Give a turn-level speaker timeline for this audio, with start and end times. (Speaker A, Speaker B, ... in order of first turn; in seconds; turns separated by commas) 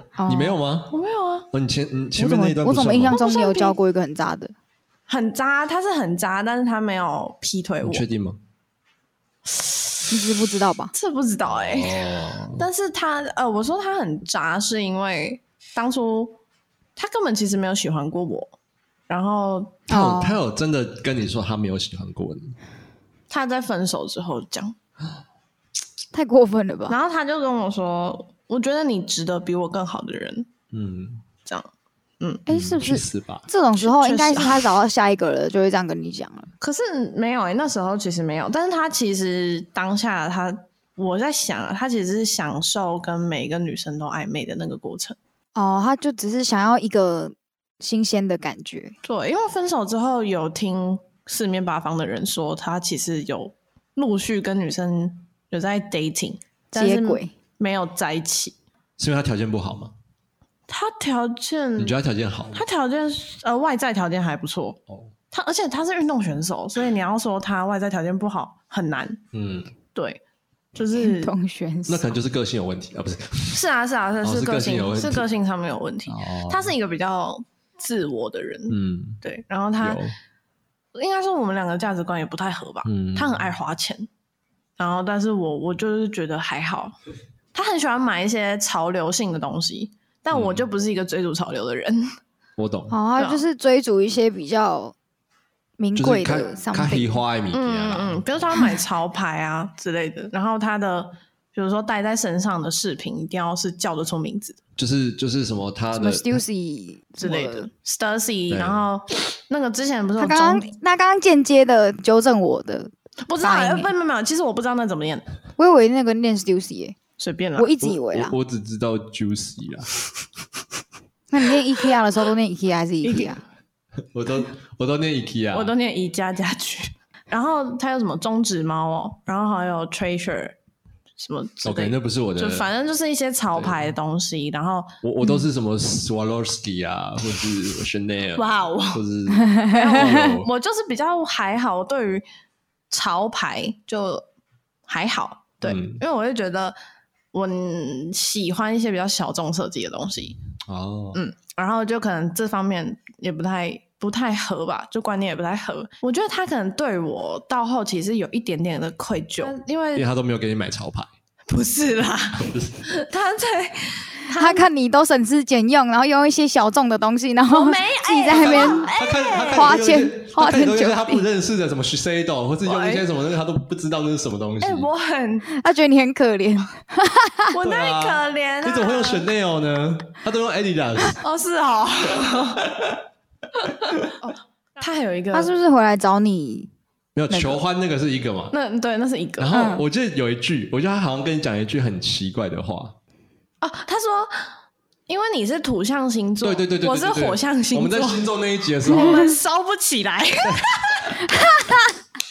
Speaker A: 0.2-0.6, Speaker B: 0.3-0.9, Speaker C: 0.9-1.5, Speaker B: 1.5-3.2, Speaker A: 2.1-4.5, Speaker C: 3.1-3.8, Speaker C: 5.1-8.0, Speaker B: 7.8-8.4, Speaker C: 9.5-10.1, Speaker A: 10.1-10.9, Speaker C: 10.9-16.4, Speaker B: 11.4-12.7, Speaker C: 16.9-18.5, Speaker C: 19.1-19.8, Speaker A: 19.9-20.4, Speaker B: 19.9-22.6, Speaker C: 23.3-24.7, Speaker A: 26.1-26.9, Speaker C: 26.9-30.5, Speaker B: 30.7-31.2, Speaker A: 32.5-36.5, Speaker B: 32.5-33.5, Speaker C: 33.8-34.7, Speaker C: 36.6-45.2, Speaker A: 45.5-48.9, Speaker C: 49.0-58.5, Speaker A: 56.7-57.3, Speaker B: 59.0-59.9, Speaker C: 60.7-62.0, Speaker B: 61.8-62.6, Speaker C: 62.5-64.8, Speaker C: 65.3-69.2, Speaker B: 69.3-69.7, Speaker C: 69.9-70.2, Speaker C: 70.7-71.3, Speaker A: 71.0-72.1, Speaker B: 71.9-73.6, Speaker C: 73.5-80.0, Speaker B: 74.2-75.2, Speaker B: 76.1-76.7, Speaker B: 78.7-79.2, Speaker B: 79.8-80.1, Speaker C: 80.9-84.1, Speaker B: 82.8-83.5, Speaker C: 84.8-86.9, Speaker C: 87.5-92.1, Speaker B: 90.3-90.6, Speaker B: 92.6-92.9, Speaker A: 92.9-94.9, Speaker C: 93.2-93.4, Speaker A: 95.8-97.2, Speaker B: 96.0-98.4, Speaker C: 97.5-104.6, Speaker B: 104.8-106.4, Speaker A: 105.9-107.7, Speaker C: 107.2-110.7, Speaker B: 108.5-108.8, Speaker A: 110.2-113.9, Speaker C: 113.3-115.2, Speaker A: 115.6-117.0, Speaker C: 117.2-117.7, Speaker A: 117.6-118.3, Speaker B: 117.8-119.9, Speaker A: 121.3-123.4, Speaker C: 123.0-123.3, Speaker B: 124.1-125.7, Speaker C: 125.5-130.6, Speaker C: 131.2-134.9, Speaker B: 131.6-132.7, Speaker B: 133.5-133.9, Speaker B: 135.0-140.5, Speaker C: 138.3-139.0, Speaker A: 139.4-139.9, Speaker C: 139.7-142.2, Speaker C: 142.9-144.2, Speaker C: 144.9-146.8, Speaker B: 145.6-146.0, Speaker C: 147.3-150.4, Speaker B: 150.7-151.2, Speaker C: 151.1-160.1, Speaker B: 159.9-161.1, Speaker C: 161.5-164.6, Speaker B: 162.4-162.8, Speaker A: 164.3-168.9, Speaker C: 167.5-169.7, Speaker B: 168.3-174.9, Speaker A: 169.5-171.2, Speaker C: 172.6-173.1, Speaker C: 174.6-175.5, Speaker A: 175.5-177.5, Speaker C: 177.5-179.3, Speaker B: 177.6-181.2, Speaker C: 181.2-182.6, Speaker B: 182.6-183.0, Speaker C: 184.2-185.5, Speaker A: 185.3-186.7, Speaker B: 187.1-188.5, Speaker A: 187.3-187.6, Speaker C: 188.5-189.6, Speaker B: 189.4-192.9, Speaker A: 189.5-189.8, Speaker C: 193.6-194.3, Speaker C: 195.1-201.2, Speaker B: 196.4-199.3, Speaker A: 201.2-201.9